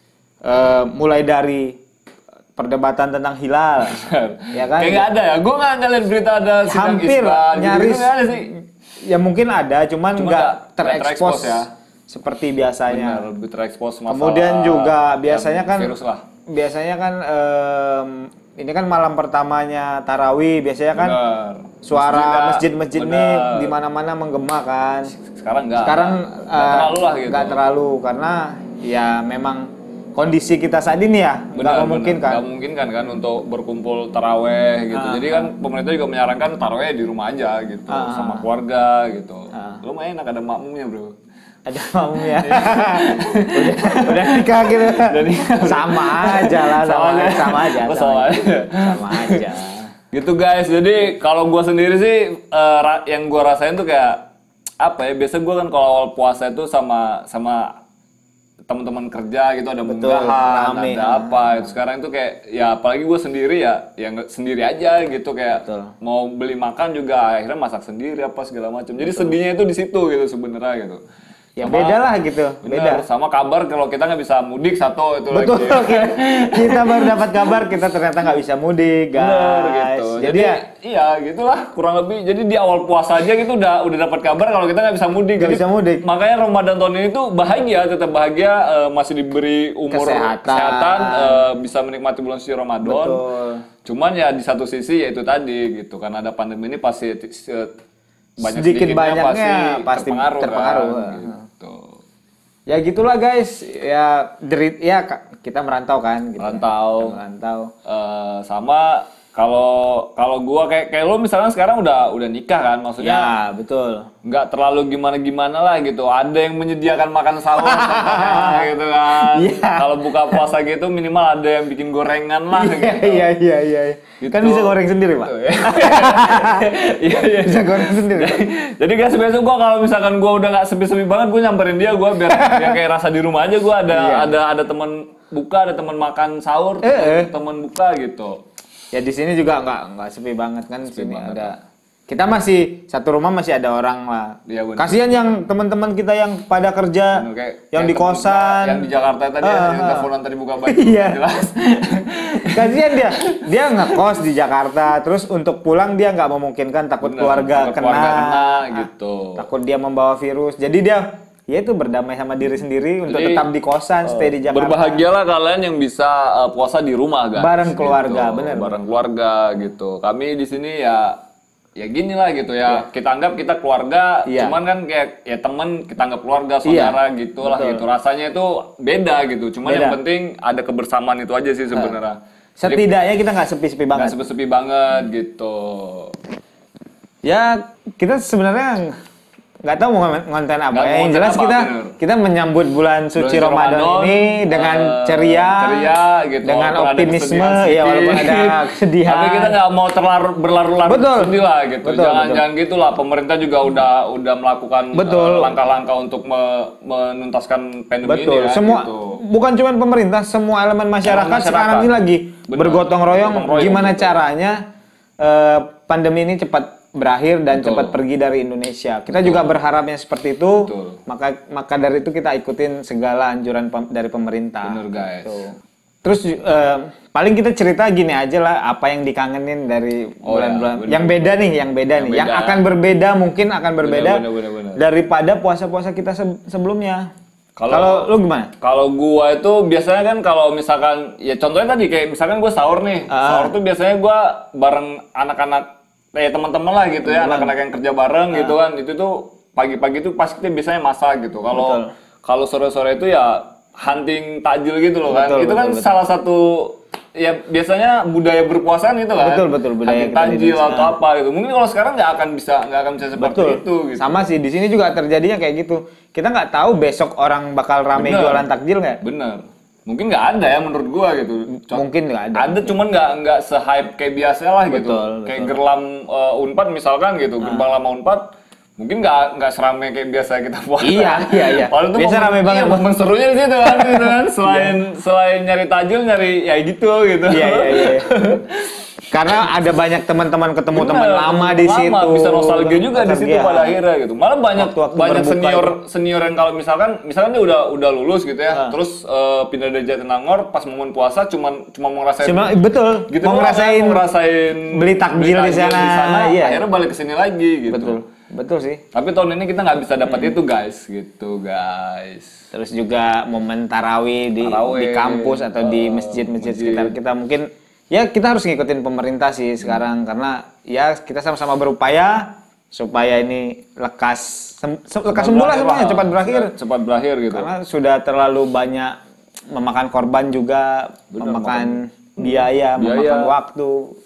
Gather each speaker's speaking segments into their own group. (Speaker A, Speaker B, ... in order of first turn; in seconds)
Speaker A: 0.5-1.8, 2.6-5.1, 6.7-13.3, 14.1-16.0, 16.5-21.2, 21.8-25.1, 25.8-32.4, 34.9-35.5, 37.9-38.5, 39.5-39.8, 41.7-49.9, 59.9-61.7, 65.6-65.9, 71.6-73.0, 75.3-80.6, 85.4-86.0, 89.9-91.5, 92.8-93.6, 98.4-101.4, 102.7-107.7, 113.0-114.1, 117.6-120.4, 122.5-126.7, 127.3-128.4, 132.2-132.8, 133.9-134.3, 136.8-137.3, 138.9-141.6, 142.1-148.9, 149.4-150.1, 150.7-151.2, 152.5-165.1, 167.4-168.8, 174.3-174.6, 176.7-177.8, 179.7-180.0, 182.6-184.2, 187.2-188.9, 189.7-199.6, 200.9-202.4, 204.9-205.5, 208.0-214.6, 215.2-225.5, 226.0-234.2, 234.8-237.1, 237.7-238.5, 243.1-243.5, 247.0-247.5, 248.3-248.6, 251.5-251.9, 255.1-255.9, 259.2-261.0, 263.2-269.0, 271.7-272.7, 274.7-275.6, 277.4-277.7, 280.8-282.9, 283.6-284.7, 287.3-288.1, 289.1-293.8, 294.6-295.8, 302.2-304.1, 304.7-306.6, 307.7-308.8, 310.1-310.4, 312.5-326.5, 327.3-329.0, 329.5-333.9
Speaker B: 3.9-8.5, 10.2-11.7, 12.9-16.2, 20.9-23.8, 25.1-27.6, 31.6-41.1, 42.2-49.5, 50.1-54.2, 54.8-57.7, 58.7-71.0, 71.6-72.1, 72.6-77.8, 79.2-93.2, 93.8-97.7, 98.4-102.0, 106.4-107.2, 107.9-113.3, 114.2-123.3, 124.2-138.4, 140.8-141.6, 144.5-145.2, 147.1-154.1, 157.0-159.4, 163.1-163.5, 164.0-171.2, 171.8-182.9, 183.9-186.2, 190.7-192.0, 193.2-209.2, 211.0-214.2, 217.5-218.0, 219.1-219.5, 220.6-221.0, 224.6-225.4, 230.2-232.7, 233.8-234.8, 237.6-264.3, 267.9-268.5, 269.0-271.8, 272.4-288.8, 290.7-302.5, 303.1-308.0, 308.9-312.3, 314.4-316.9, 325.1-327.5, 331.1-333.3